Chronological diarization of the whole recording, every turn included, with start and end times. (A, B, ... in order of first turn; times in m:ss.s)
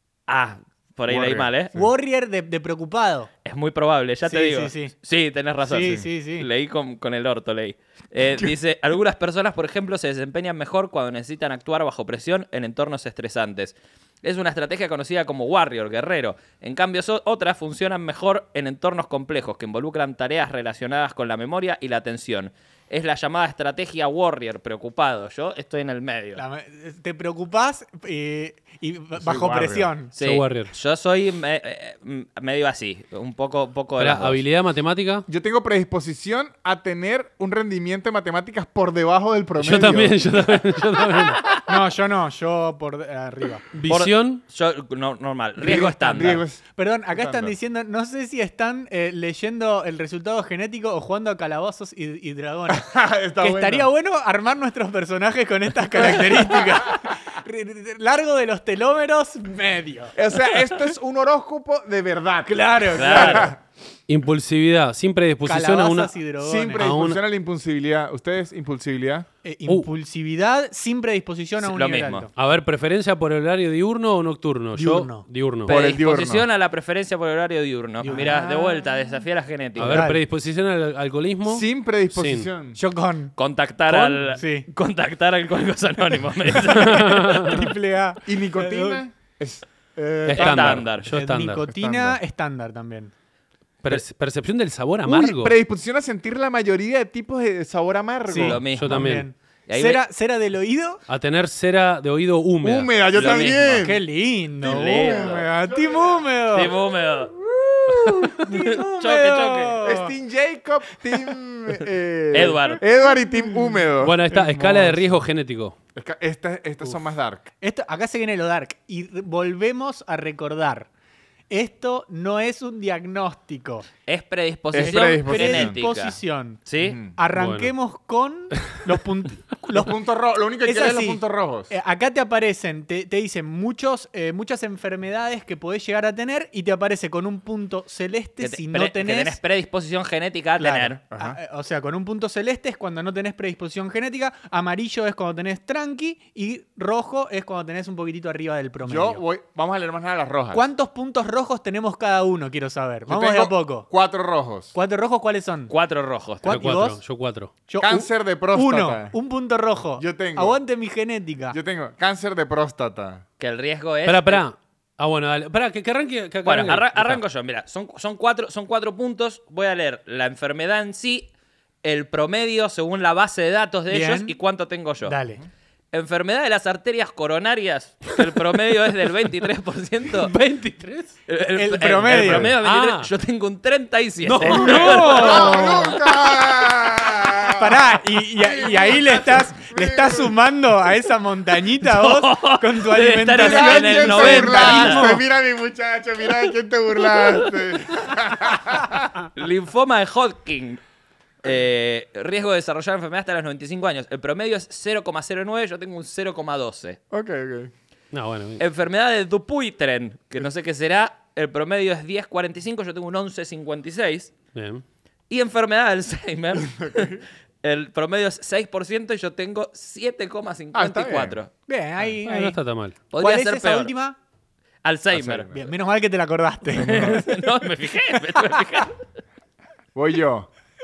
0:00.3-0:01.8 A
0:01.1-0:01.5 B
0:01.7-0:03.3 C
0:03.4-0:26.4 A
0:04.2-0:04.9 C
0:05.6-0:06.5 C
0:26.4-0:30.1 C
0:29.2-0:29.9 B
0:30.2-0:34.4 A
0:30.2-0:30.7 D
0:34.0-0:35.3 D
0:35.3-0:40.2 B
0:39.6-0:41.5 D
0:41.7-0:43.6 C
0:43.7-0:44.4 D
0:43.9-0:46.4 A
0:45.6-0:47.5 B
0:46.8-1:00.2 C
0:52.7-0:53.9 B
1:00.2-1:03.6 B
1:02.5-1:03.5 C
1:03.0-1:03.5 A
1:04.1-1:06.2 D
1:05.4-1:06.9 C
1:06.4-1:09.3 B
1:06.8-1:07.2 D
1:09.4-1:12.3 C
1:11.6-1:12.3 A
1:12.4-1:15.7 D
1:14.7-1:15.3 C
1:15.6-1:20.1 A
1:15.7-1:16.5 B
1:18.0-1:18.4 C
1:18.1-1:19.2 B
1:19.8-1:20.2 C
1:19.8-1:22.5 D
1:21.4-1:22.8 B
1:22.8-1:23.4 C
1:23.4-1:27.5 A
1:23.9-1:24.7 C
1:26.7-1:29.0 C
1:26.8-1:27.7 D
1:28.2-1:30.9 B
1:30.3-1:31.6 D
1:30.3-1:31.1 A
1:31.1-1:33.1 C
1:31.7-1:32.2 B
1:33.8-1:35.6 D
1:35.0-1:38.6 B
1:38.3-1:41.0 C
1:38.3-1:39.0 A
1:38.7-1:39.3 D
1:39.7-1:40.0 A
1:41.1-1:43.6 D
1:42.6-1:44.0 B
1:43.1-1:43.8 A
1:43.8-1:46.7 C
1:44.6-1:46.2 B
1:44.6-1:45.4 A
1:46.5-1:47.4 A
1:47.4-1:48.4 B
1:48.0-1:49.8 A
1:48.4-1:50.2 C
1:49.8-1:55.0 B
1:52.3-1:52.8 A
1:54.0-1:55.8 D
1:56.0-1:57.5 B
1:57.6-2:00.9 C
2:01.5-2:03.9 C
2:04.1-2:07.0 A
2:04.7-2:05.8 B
2:04.8-2:06.6 C
2:06.8-2:07.2 B
2:07.1-2:10.0 C
2:07.3-2:07.7 D
2:09.7-2:11.7 B
2:10.6-2:19.4 C
2:18.4-2:21.0 A
2:20.6-2:29.2 C
2:21.1-2:21.4 B
2:28.8-2:30.7 B
2:30.5-2:33.9 C
2:33.1-2:34.8 B
2:34.7-2:35.7 C
2:35.7-2:36.6 A
2:36.4-2:37.0 C
2:36.4-2:37.5 D
2:37.7-2:41.6 C
2:37.8-2:39.2 B
2:40.0-2:40.6 B
2:41.5-2:43.2 B
2:43.4-2:44.4 A
2:44.1-2:47.2 D
2:46.4-2:51.3 A
2:51.8-2:55.2 A
2:53.9-2:54.4 C
2:55.0-2:55.4 C
2:55.9-3:00.3 A
3:00.1-3:01.2 D
3:01.3-3:05.8 A
3:01.6-3:02.6 C
3:02.2-3:03.1 D
3:04.2-3:05.6 D
3:04.4-3:06.0 C
3:04.8-3:10.4 B
3:07.5-3:15.2 C
3:11.8-3:15.2 A
3:13.4-3:19.2 B
3:17.1-3:17.5 A
3:19.4-3:20.8 A
3:21.4-3:27.0 A
3:27.1-3:27.7 B
3:28.1-3:28.6 D
3:28.6-3:34.3 A
3:34.5-3:34.8 D
3:35.3-3:41.5 A
3:36.7-3:37.2 B
3:40.7-3:41.4 B
3:41.7-3:42.6 C
3:42.3-3:43.0 D
3:43.1-3:43.9 A
3:43.1-3:44.2 C
3:44.8-3:45.5 A
3:45.1-3:45.7 B
3:45.5-3:47.5 C
3:46.7-3:47.2 B
3:46.8-3:49.0 A
3:50.0-3:50.5 B